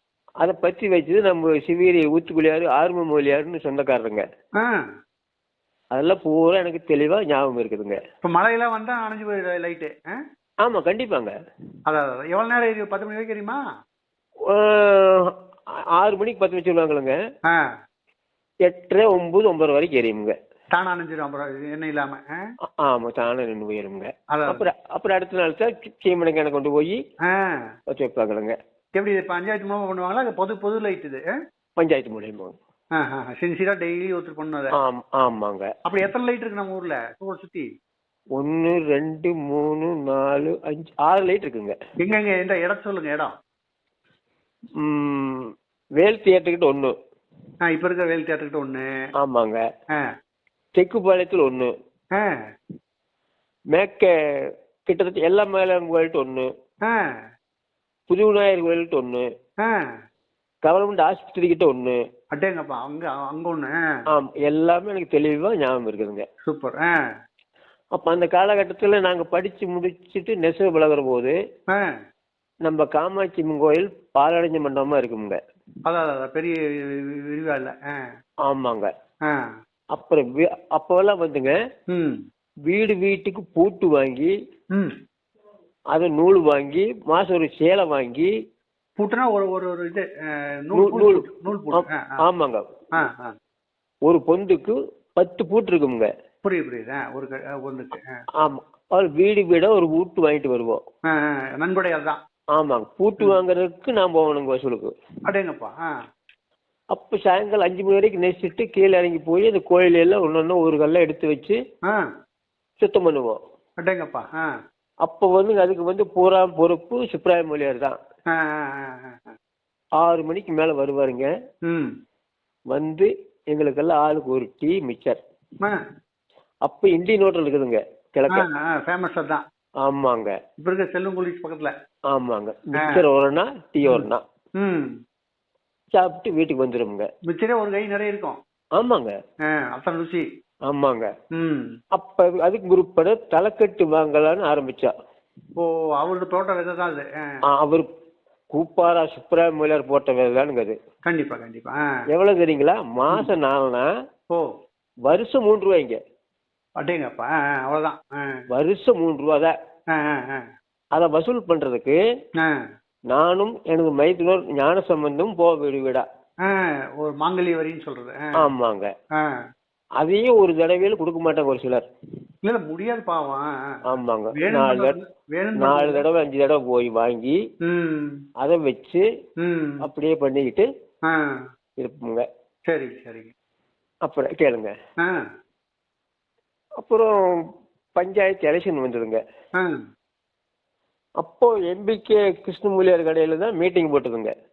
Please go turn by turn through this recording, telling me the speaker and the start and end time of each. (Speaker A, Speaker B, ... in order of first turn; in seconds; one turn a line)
Speaker A: 0.4-4.2
Speaker B: 4.6-5.0
Speaker A: 5.9-8.0
Speaker B: 8.2-10.2
Speaker A: 10.6-11.3
Speaker B: 11.9-13.6
Speaker A: 14.4-17.2
Speaker B: 17.5-17.8
Speaker A: 18.6-20.4
Speaker B: 20.7-22.5
Speaker A: 22.7-27.0
Speaker B: 24.3-24.6
Speaker B: 27.2-27.7
Speaker A: 27.9-28.6
Speaker B: 28.9-31.3
Speaker A: 31.8-32.6
Speaker B: 32.9-34.8
Speaker A: 34.7-35.7
Speaker B: 35.9-37.7
Speaker A: 38.3-41.8
Speaker B: 42.0-43.3
Speaker A: 44.8-46.9
Speaker B: 47.6-48.9
Speaker A: 49.2-49.6
Speaker A: 50.8-51.7
Speaker B: 52.1-52.5
Speaker A: 53.7-56.5
Speaker B: 56.8-57.2
Speaker A: 58.1-59.3
Speaker B: 59.6-60.0
Speaker A: 60.6-62.0
Speaker B: 62.3-64.0
Speaker A: 64.1-66.2
Speaker B: 66.4-67.0
Speaker A: 67.9-71.4
Speaker B: 71.7-72.0
Speaker A: 72.6-75.4
Speaker B: 75.9-78.1
Speaker A: 78.4-78.9
Speaker B: 79.2-79.6
Speaker A: 79.9-81.6
Speaker B: 81.9-82.2
Speaker A: 82.7-84.3
Speaker A: 85.9-88.3
Speaker B: 89.0-92.2
Speaker A: 90.7-92.7
Speaker B: 93.0-93.3
Speaker A: 94.1-96.1
Speaker B: 96.4-98.2
Speaker A: 98.4-100.8
Speaker B: 101.1-102.2
Speaker A: 102.5-104.9
Speaker B: 105.3-105.9
Speaker A: 106.9-111.6
Speaker B: 111.8-112.1
Speaker A: 112.8-113.4
Speaker B: 113.8-114.5
Speaker A: 115.0-118.0
Speaker B: 118.3-119.3
Speaker A: 120.0-121.3
Speaker B: 121.7-122.0
Speaker A: 122.7-125.2
Speaker A: 126.6-128.4
Speaker B: 128.3-129.4
Speaker A: 129.8-130.4
Speaker B: 130.6-131.7
Speaker A: 132.1-134.2
Speaker B: 132.8-133.0
Speaker B: 134.6-135.0
Speaker A: 135.9-137.1
Speaker B: 137.3-138.4
Speaker A: 138.8-139.1
Speaker B: 139.4-140.3
Speaker A: 140.7-141.1
Speaker B: 141.3-141.8
Speaker A: 141.9-144.9
Speaker B: 145.6-147.4
Speaker A: 147.5-147.9
Speaker A: 148.5-150.8
Speaker B: 151.1-152.0
Speaker A: 152.1-153.9
Speaker B: 154.3-154.6
Speaker A: 155.1-156.0
Speaker B: 156.8-158.4
Speaker A: 158.5-159.6
Speaker B: 159.9-160.5
Speaker A: 160.9-162.0
Speaker B: 162.4-162.7
Speaker A: 163.1-166.1
Speaker B: 166.4-168.4
Speaker A: 168.4-168.9
Speaker B: 169.2-169.5
Speaker A: 170.0-171.9
Speaker B: 172.4-173.8
Speaker A: 173.9-174.9
Speaker B: 174.3-176.0
Speaker A: 175.6-177.4
Speaker B: 177.6-178.2
Speaker A: 178.4-179.0
Speaker B: 179.4-179.8
Speaker A: 179.8-180.7
Speaker B: 181.1-181.5
Speaker A: 181.8-182.3
Speaker B: 182.7-183.3
Speaker A: 184.1-184.7
Speaker B: 185.0-185.3
Speaker A: 186.8-187.4
Speaker A: 188.0-189.2
Speaker B: 189.6-189.9
Speaker A: 191.2-194.3